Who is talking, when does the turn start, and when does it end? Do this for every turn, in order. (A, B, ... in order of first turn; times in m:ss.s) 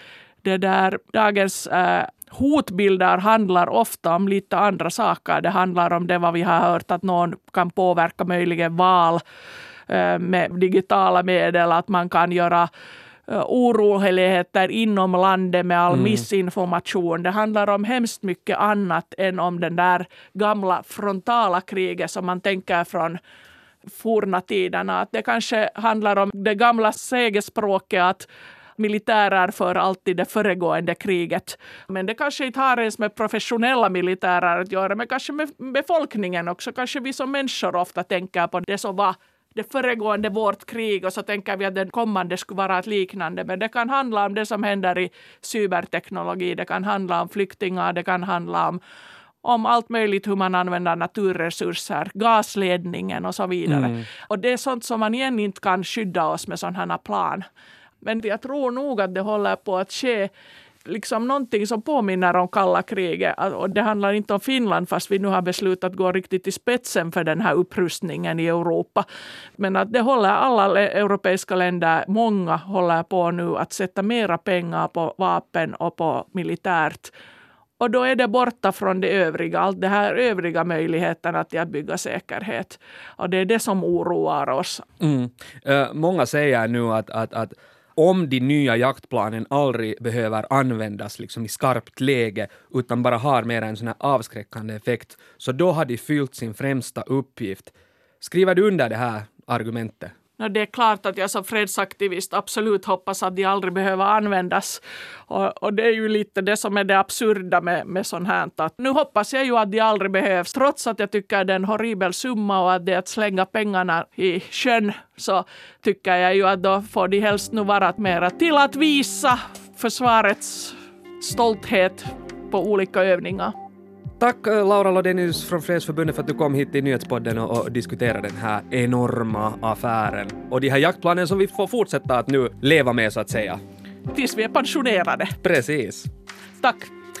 0:00.4-0:09.2 A
0:09.9-0:12.7 A
0:13.3-0:23.2 A
0:15.9-0:16.2 B
0:23.9-0:28.2 A
0:28.8-0:48.8 A
0:49.4-0:57.4 A
0:53.7-0:54.0 B
0:58.0-1:00.3 A
1:00.8-1:09.0 A
1:09.6-1:17.1 A
1:17.8-1:24.8 A
1:25.0-1:40.1 B
1:40.4-2:03.5 A
2:04.2-2:13.6 B
2:14.1-2:15.4 A
2:15.4-2:16.1 B
2:16.6-2:16.9 A